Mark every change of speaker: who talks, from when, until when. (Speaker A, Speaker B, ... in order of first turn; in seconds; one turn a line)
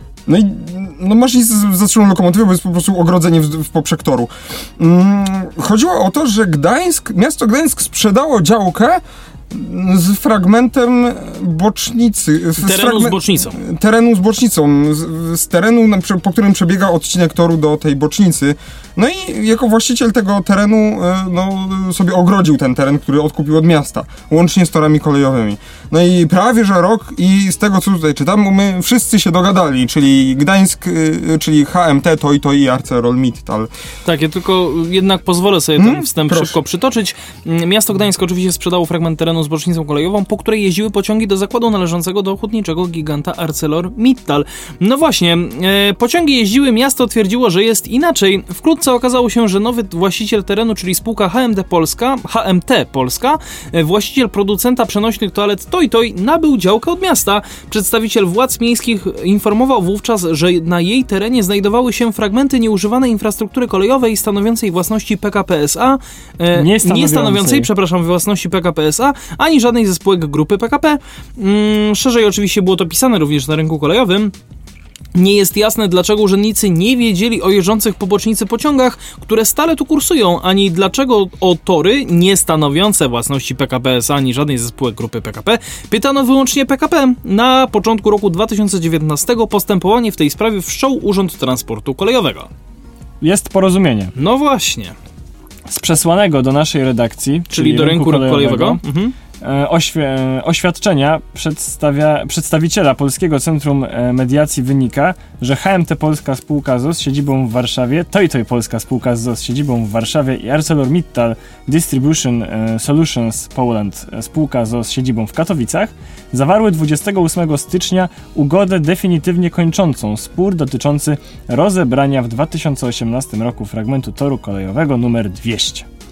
Speaker A: 0.3-33.7
Speaker B: 12.6-13.6
Speaker B: 34.0-74.3
Speaker A: 35.8-36.6
Speaker C: 66.5-67.7
Speaker B: 75.1-92.5
Speaker C: 93.2-94.1
Speaker B: 94.2-94.9
Speaker C: 95.7-98.8
Speaker B: 97.5-99.1
Speaker C: 99.4-125.8